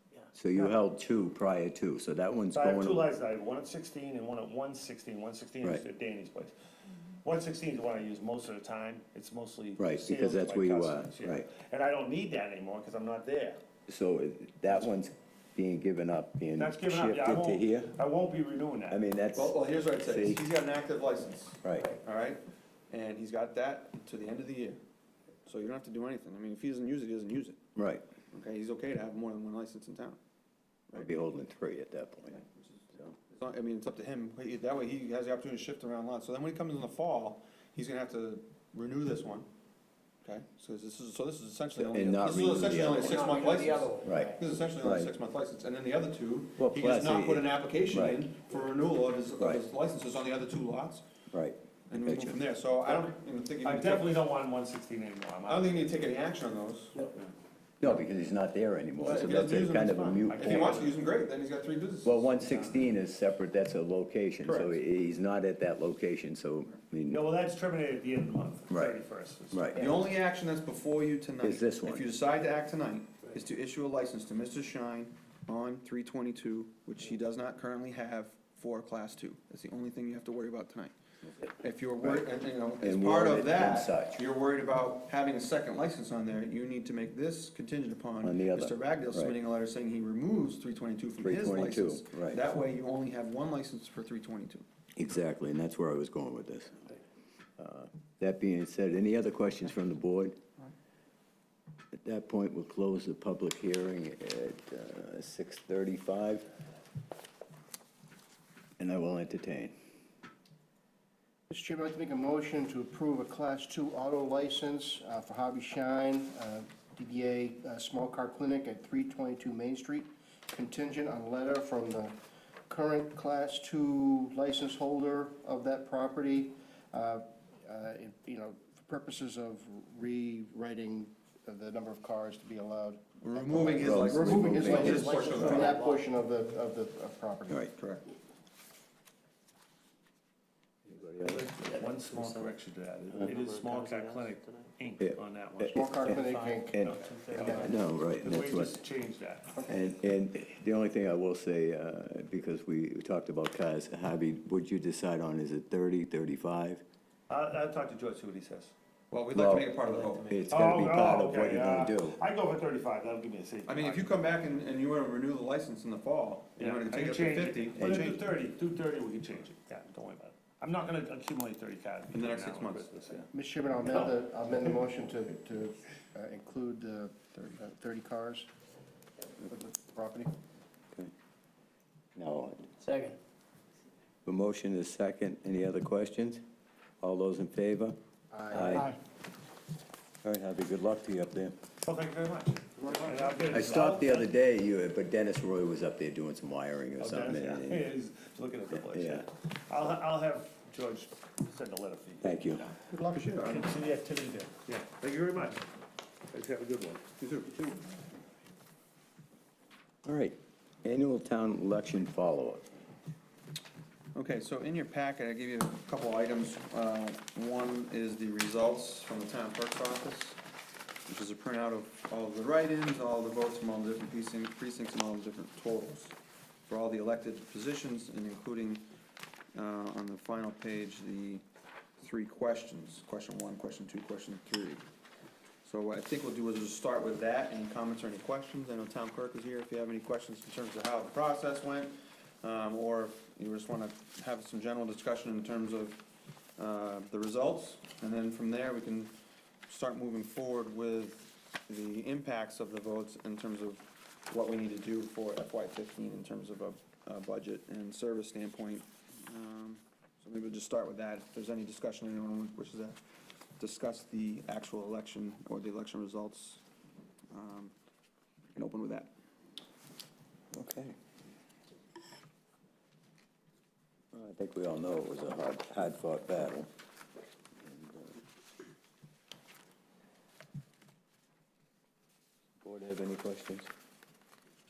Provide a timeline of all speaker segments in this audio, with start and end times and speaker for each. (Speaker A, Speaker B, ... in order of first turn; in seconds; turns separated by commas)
Speaker A: 0.3-3.1, Speaker B: 2.5-6.5, Speaker B: 7.2-13.6, Speaker A: 9.8-11.5, Speaker A: 13.9-17.9, Speaker B: 16.6-19.0, Speaker A: 18.9-20.4, Speaker C: 19.3-24.8, Speaker A: 21.6-21.9, Speaker C: 25.4-27.6, Speaker A: 27.8-28.1, Speaker C: 28.3-30.2, Speaker A: 30.9-32.4, Speaker C: 33.2-39.5, Speaker C: 40.2-51.0, Speaker A: 41.8-43.3, Speaker D: 43.0-44.4, Speaker A: 44.0-45.1, Speaker A: 46.6-48.2, Speaker A: 51.3-52.4, Speaker C: 51.9-54.2, Speaker B: 53.6-56.1, Speaker C: 55.5-57.1, Speaker A: 57.8-60.8, Speaker C: 59.0-62.9, Speaker B: 60.2-61.0, Speaker A: 62.0-67.2, Speaker C: 64.4-64.8, Speaker B: 67.1-69.7, Speaker A: 68.7-69.0, Speaker A: 69.5-69.9, Speaker C: 69.7-94.6, Speaker A: 71.4-72.1, Speaker A: 82.0-84.2, Speaker A: 88.2-89.3, Speaker A: 91.2-92.4, Speaker A: 95.0-97.0, Speaker A: 97.6-100.4, Speaker A: 101.9-106.5, Speaker A: 108.8-109.7, Speaker E: 111.5-122.1, Speaker E: 122.7-137.6, Speaker C: 133.2-135.8, Speaker A: 133.5-135.1, Speaker D: 134.6-136.1, Speaker C: 137.8-138.1, Speaker A: 140.9-141.4, Speaker B: 141.2-149.6, Speaker D: 141.2-142.6, Speaker D: 143.1-144.7, Speaker A: 145.0-146.2, Speaker E: 145.7-146.7, Speaker A: 146.7-148.8, Speaker E: 147.3-147.7, Speaker A: 149.6-156.8, Speaker B: 157.3-158.7, Speaker C: 159.1-160.4, Speaker A: 159.3-162.2, Speaker B: 160.5-164.2, Speaker C: 163.7-168.2, Speaker B: 166.6-173.3, Speaker A: 167.8-168.1, Speaker C: 172.1-173.2, Speaker E: 173.3-178.5, Speaker E: 179.4-180.3, Speaker A: 182.2-182.7, Speaker D: 182.8-183.2, Speaker A: 184.2-186.4, Speaker A: 187.0-187.9, Speaker E: 188.3-189.0, Speaker A: 188.5-188.9, Speaker A: 190.2-191.6, Speaker B: 191.8-194.3, Speaker A: 193.5-197.9, Speaker B: 197.0-202.7, Speaker A: 198.7-199.2, Speaker A: 202.2-202.7, Speaker C: 202.8-203.9, Speaker B: 203.4-205.7, Speaker B: 206.3-207.1, Speaker C: 207.2-207.8, Speaker A: 210.0-212.7, Speaker C: 214.1-220.4, Speaker C: 221.1-226.2, Speaker C: 226.7-228.8, Speaker C: 229.5-231.4, Speaker C: 232.0-234.8, Speaker C: 235.6-246.0, Speaker C: 246.6-249.2, Speaker C: 249.7-263.0, Speaker C: 263.6-266.6, Speaker C: 267.3-267.7, Speaker C: 268.5-269.1, Speaker A: 270.5-271.0, Speaker A: 274.1-276.7, Speaker A: 277.6-278.1, Speaker A: 282.6-283.7